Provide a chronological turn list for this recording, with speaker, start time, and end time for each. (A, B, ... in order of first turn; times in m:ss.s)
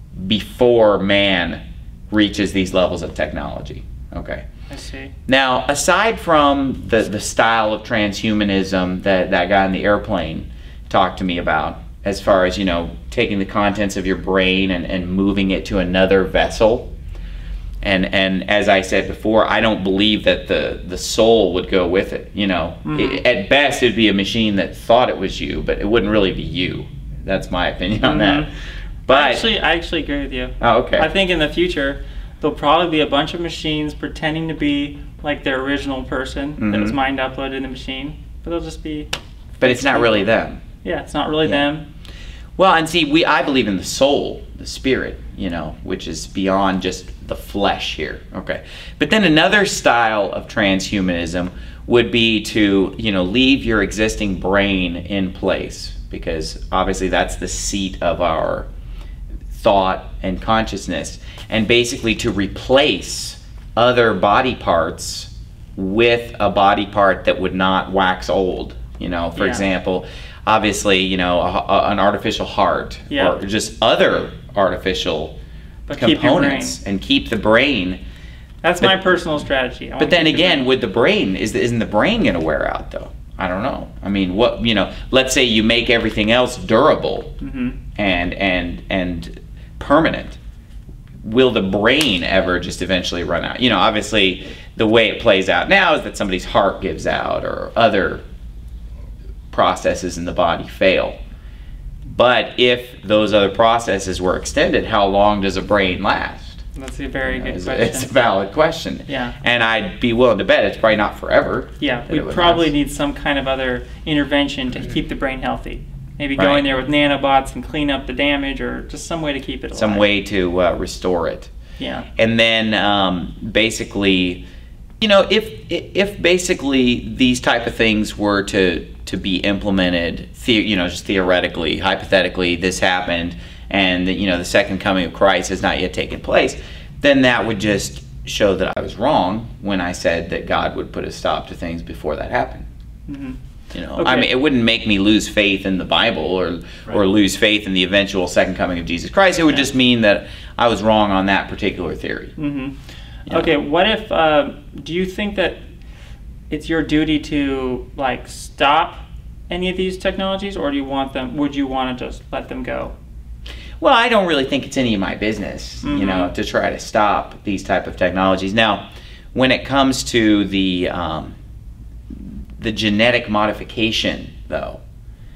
0:00.2-0:04.4 A
0:04.7-0:05.1 B
0:05.3-0:16.9 A
0:17.8-0:28.5 A
0:22.8-0:23.2 B
0:28.0-0:28.5 B
0:29.1-0:29.4 A
0:29.1-0:39.1 B
0:30.6-0:31.1 A
0:36.6-0:37.0 A
0:39.6-0:40.6 A
0:39.6-0:40.3 B
0:40.8-0:41.9 B
0:42.6-0:58.7 A
0:59.5-1:15.3 A
1:09.4-1:09.6 B
1:13.1-1:13.4 B
1:15.9-1:16.8 B
1:15.9-1:18.0 A
1:18.6-1:20.7 B
1:20.0-1:27.3 A
1:27.4-1:27.8 B
1:28.0-1:30.4 A
1:31.2-1:38.2 A
1:39.5-1:41.2 A
1:42.0-1:46.6 A
1:46.8-1:48.1 B
1:47.2-1:52.7 A
1:49.1-1:49.3 B
1:51.8-2:00.0 B
1:56.4-1:56.6 A
1:59.7-2:01.5 A
2:01.8-2:02.0 B
2:02.2-2:04.4 A
2:05.0-2:22.7 A
2:23.1-2:23.4 B
2:23.7-2:32.3 A
2:24.0-2:24.3 B
2:32.4-2:32.7 B
2:33.3-2:35.6 B
2:36.5-2:42.9 B
2:43.8-2:51.3 A
2:45.8-2:46.3 B
2:52.3-2:54.8 A